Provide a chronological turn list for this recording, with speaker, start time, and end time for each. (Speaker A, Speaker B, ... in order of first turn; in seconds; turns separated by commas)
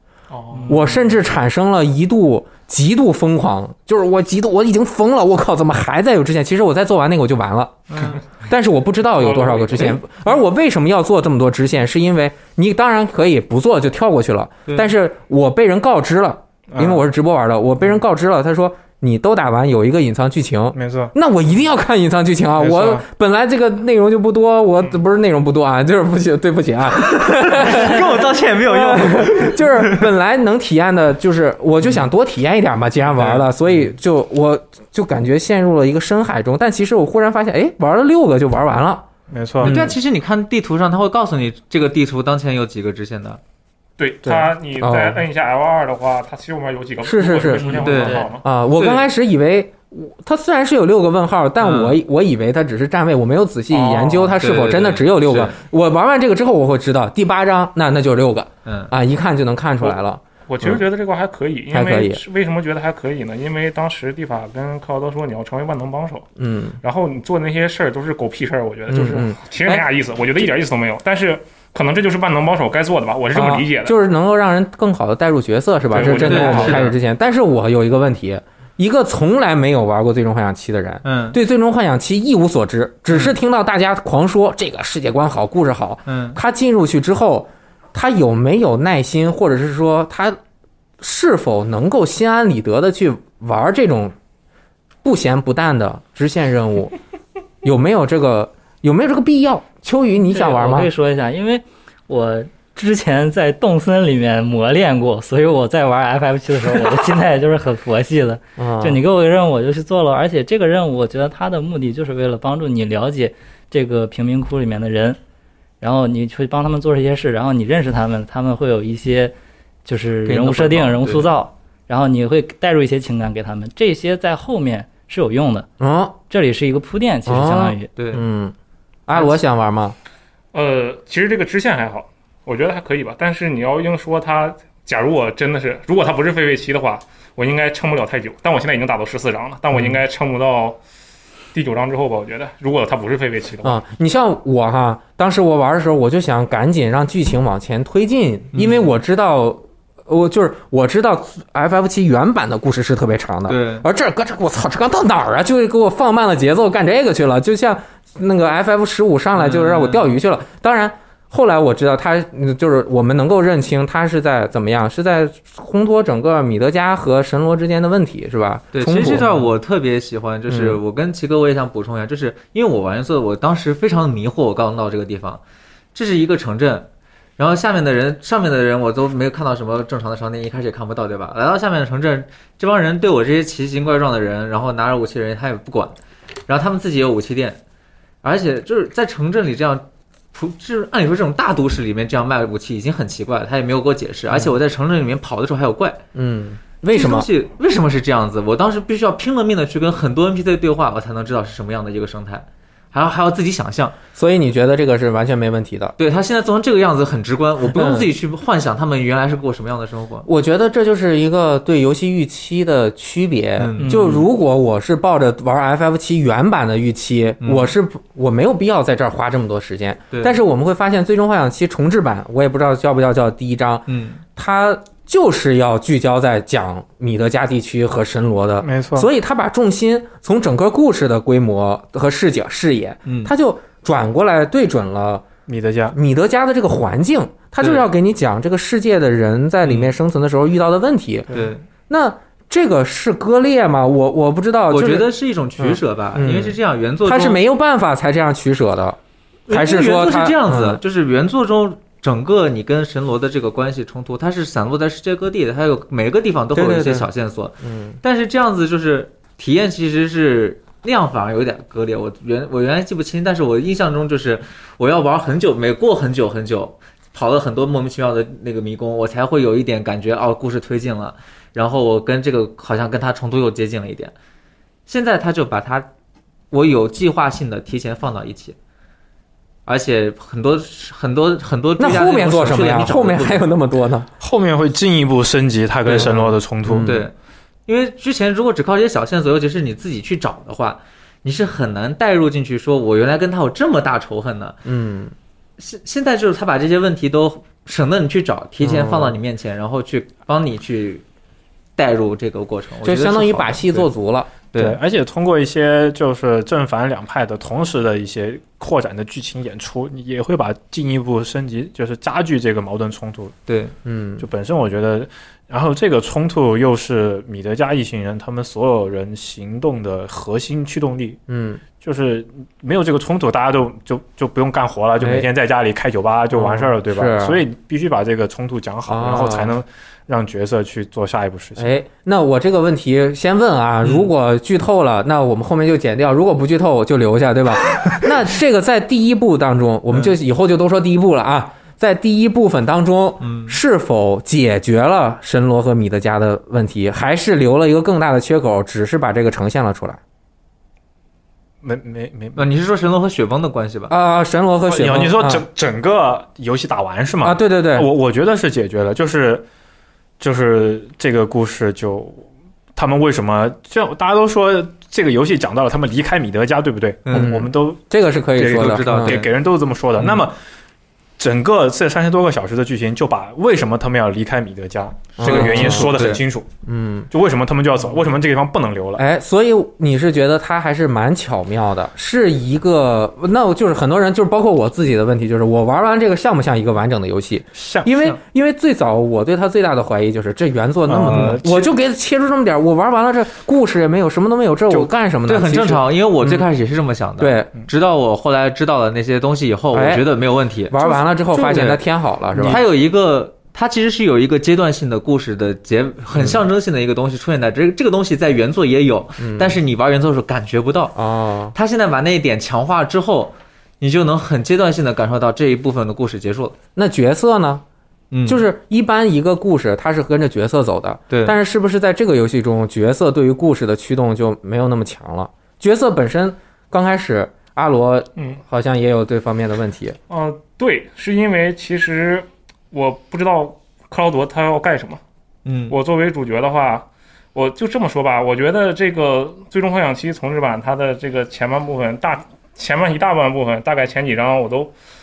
Speaker A: 0.3-0.8, Speaker B: 0.5-0.9, Speaker C: 0.7-39.1, Speaker D: 7.9-8.2, Speaker A: 9.2-9.9, Speaker E: 16.7-17.1, Speaker E: 20.7-21.1, Speaker E: 22.6-23.0, Speaker D: 27.0-30.1, Speaker E: 39.3-39.8, Speaker D: 39.6-43.4, Speaker C: 39.6-39.9, Speaker A: 44.0-48.4, Speaker C: 44.2-45.2, Speaker C: 47.0-60.8, Speaker D: 47.7-49.1, Speaker D: 51.6-52.0, Speaker D: 53.7-55.6, Speaker D: 58.6-58.9, Speaker A: 60.5-66.2, Speaker C: 61.7-62.2, Speaker C: 66.4-66.8, Speaker A: 66.8-73.9, Speaker C: 68.9-69.8, Speaker C: 73.3-90.4, Speaker A: 75.9-76.9, Speaker D: 76.0-76.9, Speaker D: 81.0-81.4, Speaker D: 83.1-83.3, Speaker D: 86.1-86.4, Speaker C: 91.0-94.1, Speaker C: 95.0-96.9, Speaker C: 97.6-100.9, Speaker B: 100.2-115.2, Speaker C: 108.6-109.0, Speaker B: 115.8-119.3, Speaker B: 119.8-125.7, Speaker D: 120.2-121.3, Speaker C: 125.8-126.2, Speaker B: 126.3-127.9, Speaker C: 127.2-128.5, Speaker D: 128.0-128.2, Speaker C: 129.1-129.9, Speaker A: 130.5-140.8, Speaker A: 141.5-143.8, Speaker C: 143.6-169.4, Speaker D: 148.5-148.9, Speaker D: 153.5-153.8, Speaker D: 159.3-160.1, Speaker D: 168.7-175.4, Speaker C: 170.5-170.8, Speaker D: 175.9-185.9, Speaker D: 186.5-187.6, Speaker D: 188.2-196.0, Speaker C: 196.1-197.3, Speaker D: 196.9-204.0, Speaker C: 204.2-205.9, Speaker D: 206.0-210.3, Speaker C: 207.7-208.1, Speaker C: 210.2-235.3, Speaker D: 213.6-214.2, Speaker D: 217.4-217.7, Speaker D: 220.1-220.4, Speaker D: 223.9-224.2, Speaker E: 228.6-229.1, Speaker D: 233.1-233.3, Speaker E: 235.5-235.9, Speaker C: 235.9-241.3, Speaker D: 239.6-239.9, Speaker D: 241.3-241.6, Speaker C: 241.9-245.1, Speaker D: 244.7-247.4, Speaker C: 245.6-250.8, Speaker D: 249.5-274.1, Speaker C: 256.5-257.1, Speaker C: 257.6-258.0, Speaker D: 274.9-275.9, Speaker D: 276.5-278.6, Speaker D: 279.6-283.5, Speaker C: 281.8-284.1, Speaker E: 284.2-287.1, Speaker D: 285.9-286.1, Speaker C: 285.9-287.0, Speaker D: 286.8-287.1, Speaker D: 287.7-294.6, Speaker C: 294.6-295.1, Speaker D: 295.6-301.0, Speaker C: 298.6-299.2, Speaker D: 301.8-303.9, Speaker C: 302.8-304.3, Speaker D: 304.5-304.8, Speaker E: 304.6-313.3, Speaker D: 313.5-313.7, Speaker C: 313.8-314.3, Speaker E: 314.2-321.2, Speaker C: 321.3-321.6, Speaker E: 321.8-331.7, Speaker C: 325.0-325.3, Speaker C: 326.3-327.4, Speaker C: 328.9-329.6, Speaker C: 331.6-350.0, Speaker D: 333.8-334.1, Speaker D: 343.2-343.6, Speaker E: 351.6-352.4, Speaker D: 352.3-353.9, Speaker C: 353.9-355.4, Speaker E: 354.7-359.4, Speaker C: 357.2-357.9, Speaker E: 360.2-362.2, Speaker E: 362.8-367.8, Speaker D: 367.1-367.4, Speaker C: 367.1-369.2, Speaker E: 368.3-370.4, Speaker D: 368.4-369.3, Speaker D: 370.0-370.2, Speaker E: 371.2-376.5, Speaker C: 375.2-376.1, Speaker D: 375.2-376.2, Speaker C: 376.6-377.1, Speaker E: 377.1-379.0, Speaker C: 379.0-396.4, Speaker E: 387.5-387.9, Speaker E: 390.9-391.7, Speaker D: 391.1-391.4, Speaker D: 394.7-401.8, Speaker C: 397.2-397.5, Speaker C: 399.7-400.1, Speaker C: 400.7-402.6, Speaker D: 402.4-411.0, Speaker C: 406.1-406.4, Speaker C: 409.2-409.6, Speaker C: 410.9-411.5, Speaker D: 411.5-416.6, Speaker C: 416.8-417.6, Speaker D: 418.1-418.4, Speaker C: 418.2-430.0, Speaker D: 421.1-421.3, Speaker A: 430.1-435.0, Speaker D: 435.4-435.8, Speaker A: 435.7-444.7